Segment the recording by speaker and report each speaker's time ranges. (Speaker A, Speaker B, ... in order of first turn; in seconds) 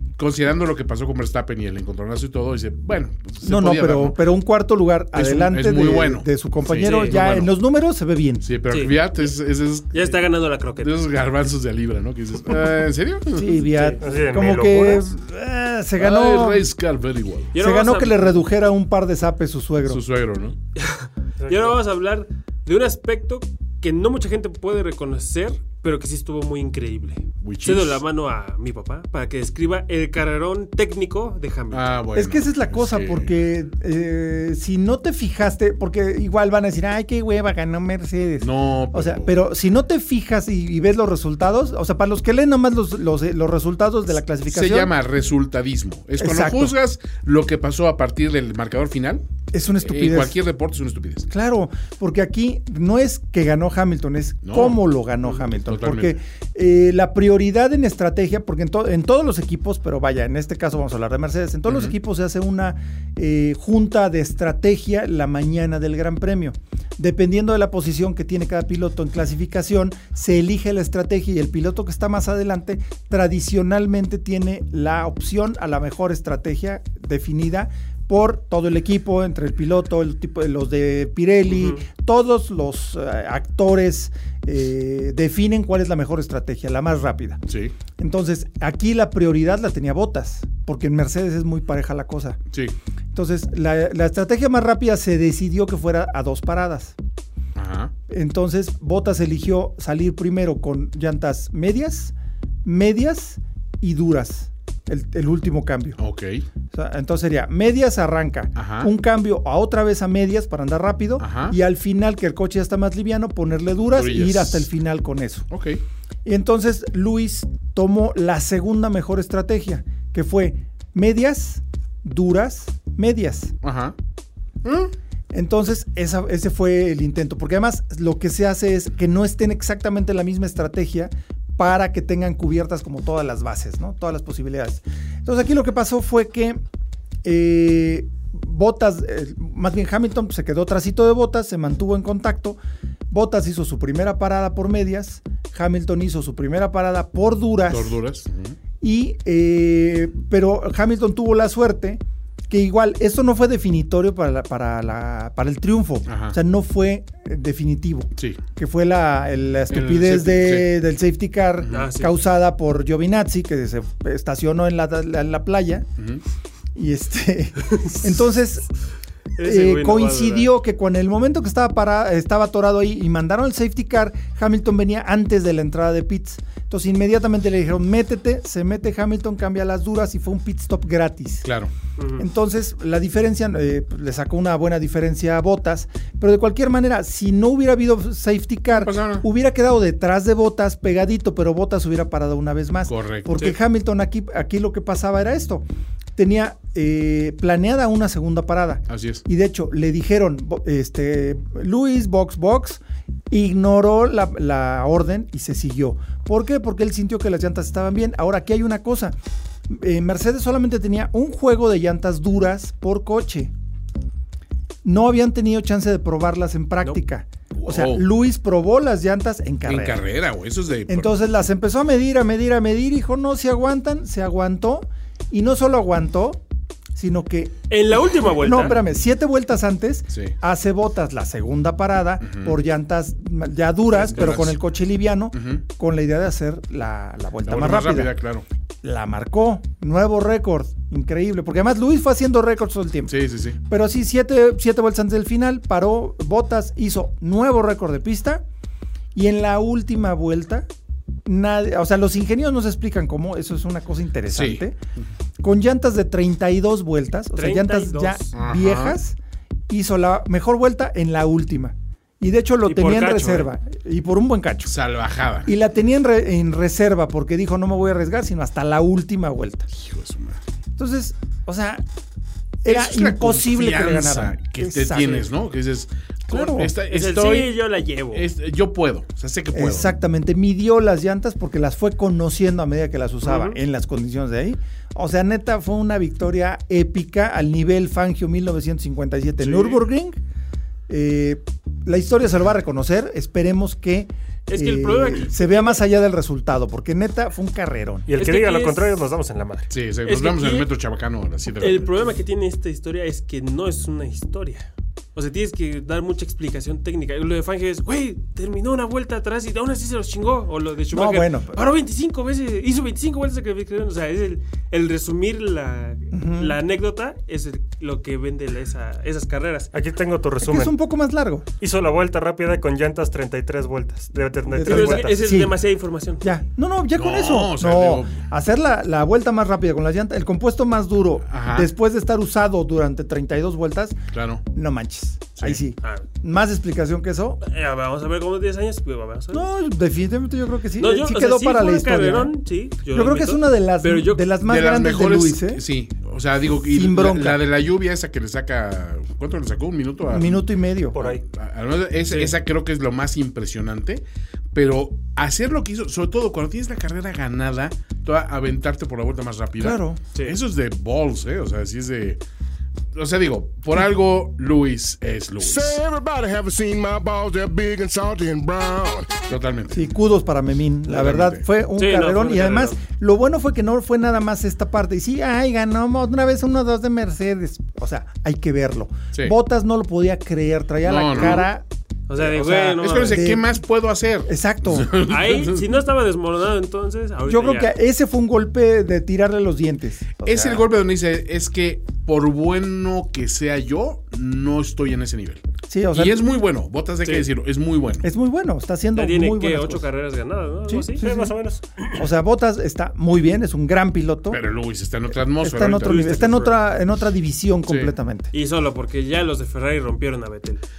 Speaker A: 0.2-4.2, 5.1-7.5, 8.4-10.2, 10.8-13.6, 16.0-17.5, 19.9-20.6, 27.4-28.0, 31.7-33.3, 38.4-39.4, 44.5-49.2, 49.8-51.3, 54.4-54.8, 55.6-56.1, 61.7-62.0, 87.5-87.7, 97.5-97.9, 106.0-106.5, 108.5-108.9, 111.2-111.6, 113.9-114.7, 115.5-115.8, 123.6-124.0, 124.6-124.9, 147.7-148.6, 156.1-156.4, 159.7-160.7, 161.6-161.9, 181.4-181.7, 188.7-189.2, 192.9-193.5, 198.9-199.2, 217.5-218.0, 219.7-221.1, 232.2-232.5, 233.9-234.6, 235.3-235.6, 237.4-238.4, 243.1-243.6, 254.3-254.7, 258.3-259.0, 264.6-265.5, 269.7-270.4, 272.7-279.9, 299.7-301.9, 326.9-328.2, 331.3-331.7, 334.1-334.4, 344.5-350.5, 351.0-362.2, 362.9-365.8, 369.3-369.9, 370.9-371.4, 380.8-381.5, 382.8-385.7, 390.2-395.4, 395.9-398.1, 404.3-406.4, 407.7-407.9
Speaker B: 3.4-8.4, 13.3-16.6, 17.6-20.0, 32.1-44.9, 46.2-46.7, 49.5-50.4, 51.3-87.4, 88.0-92.4, 93.1-97.0, 98.1-106.0, 106.7-115.5, 116.2-123.5, 125.3-136.6, 137.2-142.6, 143.1-148.0, 148.8-165.9, 166.8-168.7, 169.4-181.5, 182.2-209.2, 209.7-213.5, 214.8-220.0, 220.9-226.4, 226.9-238.2, 238.8-243.1, 243.7-248.4, 249.2-250.7, 251.2-254.8, 255.4-259.2, 259.7-264.7, 265.4-269.7, 270.8-271.8, 272.6-275.3, 276.3-276.7, 279.5-290.2, 290.9-298.1, 310.9-311.6, 316.1-316.6, 320.4-321.4, 324.5-325.6, 326.2-337.4, 339.3-342.3, 342.9-345.6, 346.7-347.4, 350.1-351.0, 359.6-360.0, 369.7-381.6, 382.2-383.6, 384.3-385.1, 387.3-390.6, 395.7-396.2, 398.0-399.9, 400.7-401.3, 401.9-404.4, 405.4-408.3
Speaker C: 6.8-7.1, 8.7-9.0, 9.9-11.0, 17.5-18.3, 20.8-32.1, 81.5-81.8, 161.7-162.1, 169.4-170.5, 182.0-182.2, 227.7-228.8, 257.4-258.3, 262.7-263.5, 276.8-278.3, 283.2-283.6, 289.4-289.8, 294.5-295.8, 298.2-298.9, 300.0-300.7, 301.6-319.7, 324.6-326.3, 337.4-339.5, 340.8-344.3, 371.8-372.8, 382.1-383.2, 385.1-387.7, 399.0-401.0, 405.8-406.6, 408.3-410.6
Speaker D: 14.0-15.1, 21.4-21.8, 298.1-299.7, 319.7-320.8, 321.6-325.1, 350.9-351.2, 401.0-401.6
Speaker E: 365.4-369.2